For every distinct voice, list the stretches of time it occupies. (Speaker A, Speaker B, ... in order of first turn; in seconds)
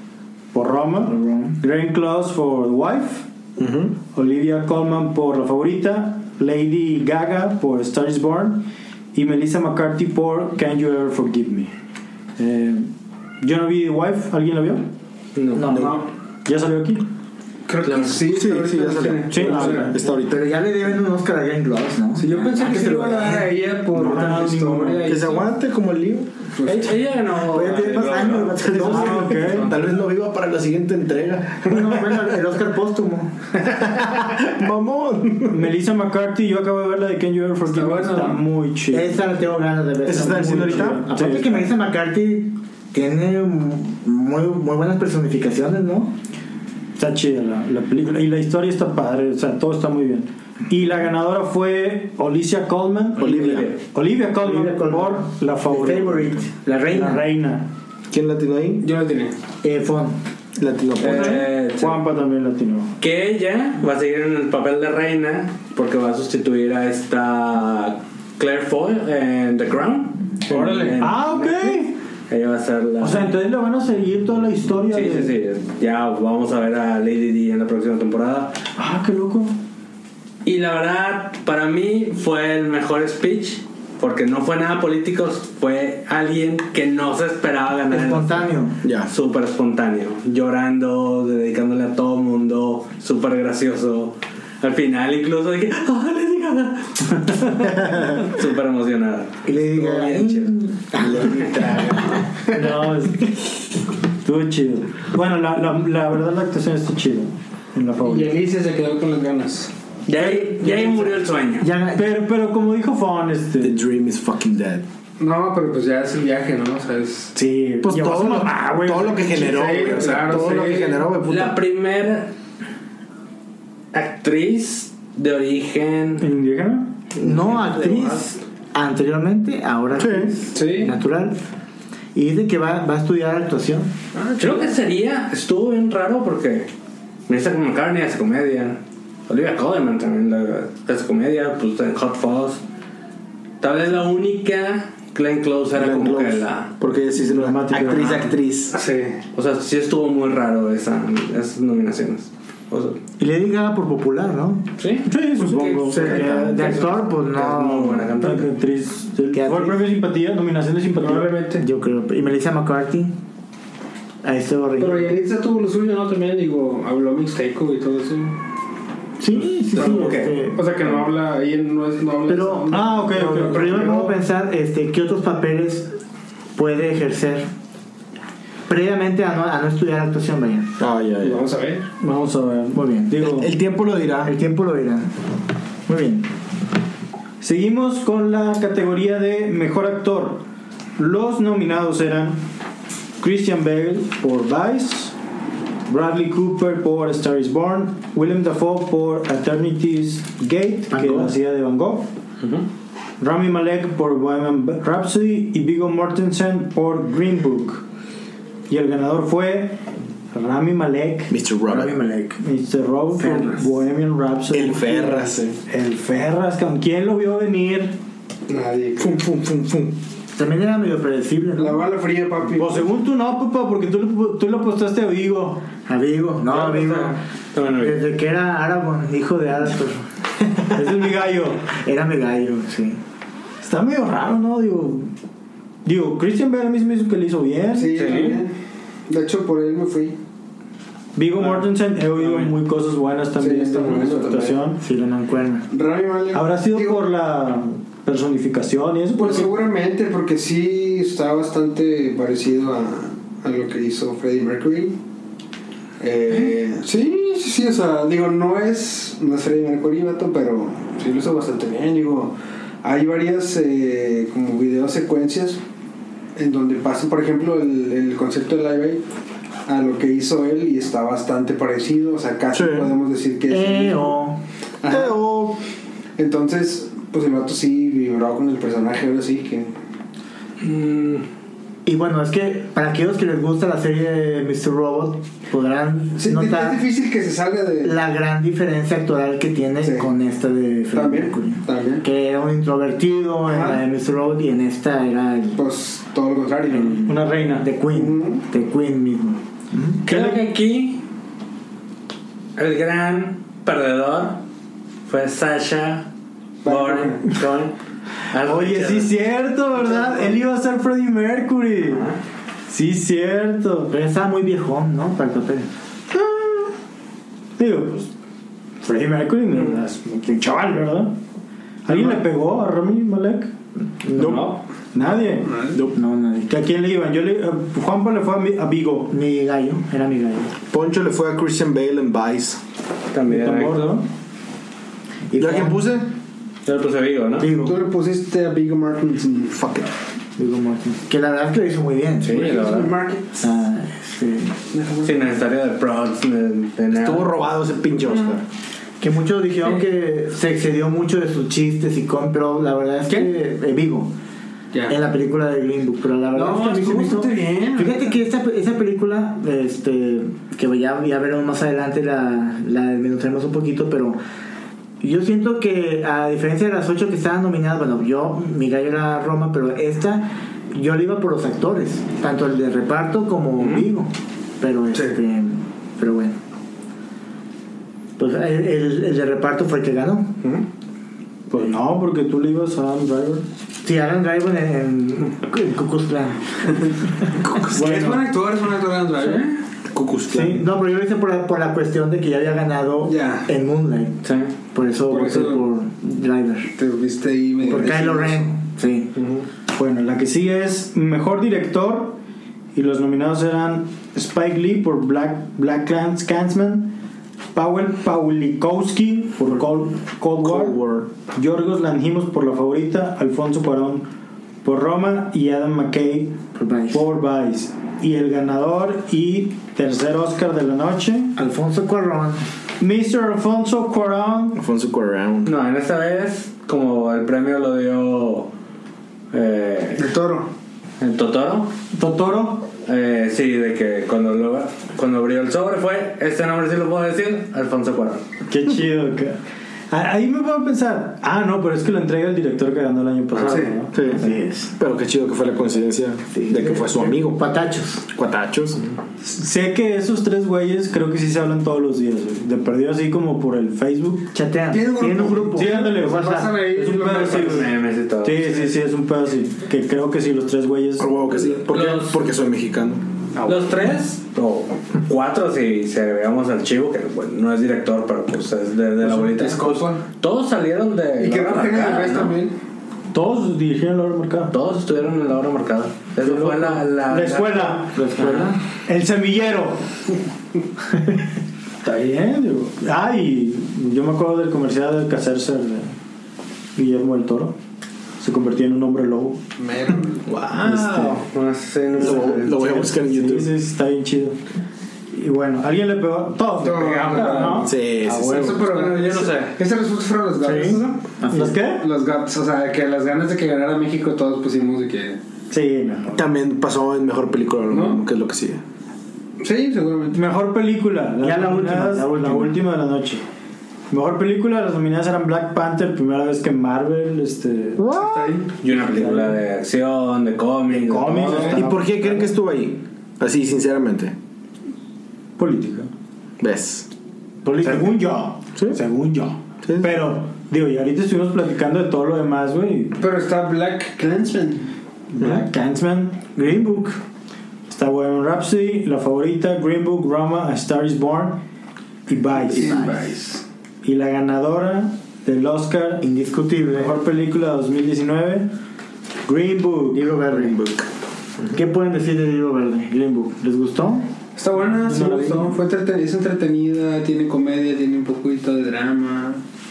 Speaker A: 0.5-3.3, 4.1-11.7, 12.4-12.9, 13.4-14.9, 16.4-17.1, 19.3-20.0, 23.9-25.1, 28.7-29.8, 35.5-39.2, 40.6-41.6, 47.0-57.7, 61.0-63.0, 71.0-72.0, 73.0-75.3, 78.8-79.5, 102.5-103.3, 104.2-108.3, 112.0-113.8, 117.3-119.8, 126.2-126.9, 147.1-148.4, 155.0-156.9, 158.2-161.3, 172.7-174.2, 182.0-183.5, 187.4-190.4, 191.0-192.4, 193.2-195.1, 195.9-202.1, 203.2-207.8, 208.7-211.3, 212.4-218.0, 222.6-225.7, 230.7-231.7, 233.6-235.1, 235.8-238.4, 241.1-244.8, 246.3-249.5, 297.1-297.7, 300.0-300.5, 308.4-312.1, 312.7-313.9, 316.1-316.7, 317.6-318.1, 318.8-321.2, 321.8-323.5, 324.2-325.6, 326.5-329.1, 333.2-334.1, 381.5-383.4, 399.7-402.2, 402.7-406.9, 407.5-414.1, 414.6-416.4, 416.9-421.3, 422.8-424.6, 431.9-432.7, 438.5-439.4, 439.9-444.2, 449.2-454.3, 455.5-461.6, 473.1-474.5, 476.2-478.0, 478.9-479.9, 481.8-485.9, 486.8-487.6, 488.2-489.4, 490.4-491.2, 491.9-494.4, 495.1-498.9, 500.4-501.9, 505.5-506.2, 510.1-513.2, 513.9-517.9, 518.7-519.4, 520.7-522.0, 525.4-525.9, 527.6-533.0, 535.1-536.3, 537.7-541.4, 542.1-542.9, 543.8-546.0, 546.7-548.5, 549.2-550.1, 554.7-555.6
Speaker B: 1.1-1.6, 15.5-16.0, 20.1-23.5, 27.3-29.6, 31.6-33.3, 38.9-46.1, 54.4-57.2, 59.6-60.2, 87.9-88.8, 99.4-101.8, 110.2-112.1, 127.2-131.4, 132.1-133.9, 153.2-154.7, 156.0-158.2, 159.3-159.8, 161.6-163.1, 164.2-165.1, 169.2-170.6, 172.3-175.9, 176.6-177.5, 178.7-180.7, 182.7-183.2, 184.2-185.1, 185.9-186.3, 200.9-201.3, 211.7-212.4, 213.2-213.6, 220.3-221.8, 225.9-227.2, 227.7-230.0, 231.7-233.0, 244.8-245.6, 273.5-274.4, 281.9-286.8, 287.8-295.6, 296.7-300.0, 313.9-315.7, 325.9-326.5, 329.1-330.5, 335.3-335.8, 337.4-337.8, 340.4-342.5, 343.4-344.5, 349.0-354.1, 354.9-364.2, 365.0-376.4, 378.2-380.3, 383.8-387.4, 390.3-394.2, 394.7-396.7, 397.6-399.1, 416.5-417.0, 421.4-422.4, 444.0-444.7, 446.3-448.0, 454.3-456.0, 477.9-478.6, 501.2-501.6, 511.2-512.6, 527.4-528.0, 536.4-537.0, 542.5-543.1, 546.0-547.0, 549.9-550.8, 551.5-554.0
Speaker C: 3.6-4.0, 15.7-16.0, 18.3-20.4, 25.0-26.4, 28.1-32.3, 33.6-35.6, 40.0-41.0, 53.2-53.7, 58.1-58.8, 60.5-61.4, 88.8-89.1, 97.7-98.2, 101.0-102.2, 113.6-114.8, 117.8-121.6, 129.9-130.3, 145.7-148.7, 155.9-156.4, 180.8-181.4, 183.2-184.3, 211.3-212.0, 214.5-215.6, 219.0-219.9, 272.5-272.9, 274.9-275.6, 324.2-324.6, 325.7-326.0, 330.7-332.6, 335.4-336.1, 339.5-339.9, 346.9-348.4, 387.3-388.2, 389.9-390.6, 410.4-411.1, 424.5-425.5, 443.9-444.2, 444.8-447.4, 448.1-448.8, 461.0-463.0, 492.0-493.5, 497.5-498.6, 506.1-508.6, 517.8-518.4, 521.5-524.1, 526.4-526.9, 529.6-529.9
Speaker D: 15.3-15.7, 17.8-18.2, 26.6-29.8, 53.2-53.8, 61.0-62.0, 63.0-73.3, 74.9-78.5, 80.4-88.5, 89.1-101.9, 110.1-111.7, 121.2-122.3, 123.9-126.2, 127.1-128.3, 134.4-136.7, 137.3-142.6, 143.6-146.7, 149.3-153.0, 154.8-158.5, 170.0-170.2, 202.4-202.7, 226.5-228.0, 237.9-238.4, 280.6-281.2, 300.0-301.0, 302.6-304.4, 305.1-306.1, 306.6-307.7, 308.3-309.1, 311.9-312.2, 324.2-324.5, 333.1-334.0, 336.6-337.5, 342.2-342.9, 345.0-347.3, 373.6-373.9, 394.2-394.5, 399.1-399.4, 425.4-428.5, 429.3-430.1, 431.0-431.7, 432.8-438.2, 457.1-458.7, 461.7-462.3, 463.4-472.4, 474.5-478.5, 490.3-492.6, 498.5-499.5, 518.6-521.6
Speaker E: 15.7-16.1, 17.7-20.0, 22.2-25.5, 26.6-27.0, 37.6-38.4, 58.8-59.4, 70.5-71.1, 108.0-109.7, 110.6-111.0, 115.2-117.3, 119.3-121.1, 130.5-130.9, 134.1-134.8, 148.7-149.2, 155.9-156.2, 161.0-161.6, 164.8-168.4, 169.7-174.0, 181.2-181.9, 218.5-219.1, 221.6-222.8, 237.7-238.6, 239.1-240.2, 242.1-242.6, 243.4-244.6, 245.7-247.1, 249.2-255.0, 256.0-265.6, 266.4-269.0, 269.7-274.1, 274.8-275.2, 276.2-279.7, 286.2-288.0, 289.8-290.1, 290.9-292.0, 293.5-293.8, 295.6-297.0, 297.9-298.4, 306.6-307.3, 325.2-325.8, 337.5-339.6, 342.3-343.4, 344.7-345.4, 356.3-358.1, 387.7-389.6, 393.1-393.5, 395.1-395.6, 396.8-398.5, 430.0-430.5, 443.4-443.8, 454.7-457.7, 469.0-470.0, 471.2-472.5, 489.6-490.3, 496.6-501.0, 501.6-505.2, 507.7-508.0, 509.4-510.2, 518.0-518.5, 533.0-534.7, 542.5-543.4, 554.4-559.4